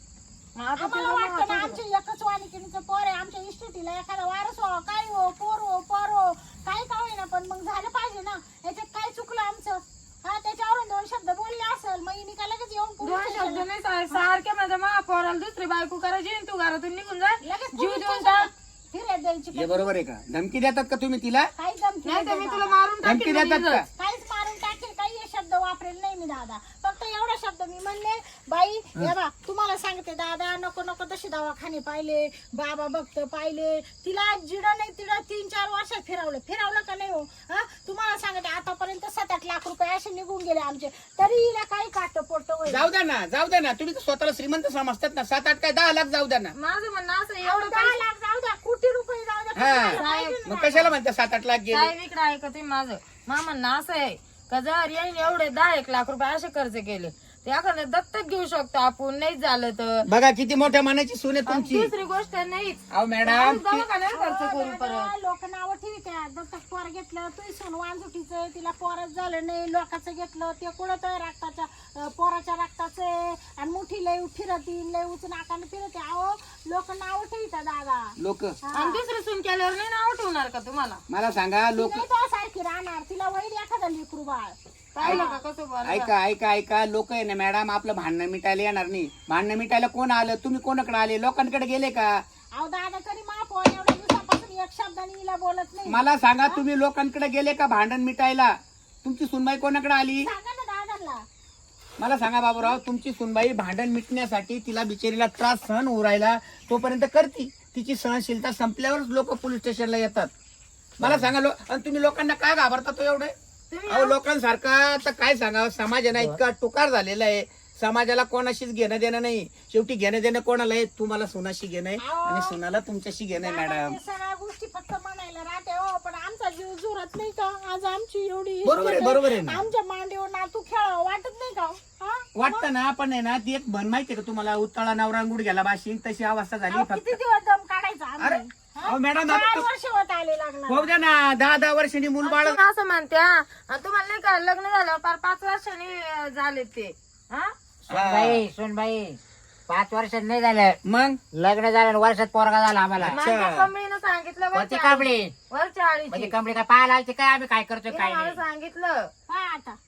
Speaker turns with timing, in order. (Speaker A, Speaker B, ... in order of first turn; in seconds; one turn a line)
Speaker A: 0.6-1.8
Speaker B: 0.8-14.3
Speaker A: 13.0-18.5
Speaker B: 17.4-19.9
Speaker C: 19.5-21.5
Speaker B: 21.6-22.7
Speaker A: 22.0-23.8
Speaker C: 23.0-23.9
Speaker B: 23.9-42.9
Speaker C: 42.7-46.5
Speaker A: 46.5-48.0
Speaker B: 47.4-50.9
Speaker C: 49.5-51.9
Speaker A: 50.0-50.4
Speaker A: 51.7-60.1
Speaker C: 60.1-61.9
Speaker A: 61.5-65.1
Speaker C: 62.9-63.8
Speaker B: 64.1-79.0
Speaker C: 78.2-78.6
Speaker A: 78.7-81.0
Speaker C: 81.1-82.0
Speaker B: 81.8-85.4
Speaker A: 84.9-86.1
Speaker C: 85.8-92.2
Speaker B: 92.5-96.6
Speaker C: 95.9-100.3
Speaker B: 100.2-101.2
Speaker C: 102.0-110.3
Speaker D: 111.0-111.3
Speaker C: 111.0-113.3
Speaker A: 113.7-114.2
Speaker C: 113.9-124.0
Speaker B: 122.0-122.6
Speaker B: 123.3-132.7
Speaker C: 128.6-129.6
Speaker C: 132.4-137.2
Speaker B: 136.7-140.9
Speaker C: 138.2-139.7
Speaker C: 140.7-142.6
Speaker A: 142.2-147.5
Speaker D: 147.8-150.8
Speaker C: 147.9-148.4
Speaker C: 150.8-151.2
Speaker D: 151.3-153.2
Speaker C: 153.0-153.7
Speaker A: 153.1-156.3
Speaker D: 154.5-155.3
Speaker D: 156.1-158.4
Speaker A: 157.9-159.1
Speaker B: 159.3-159.8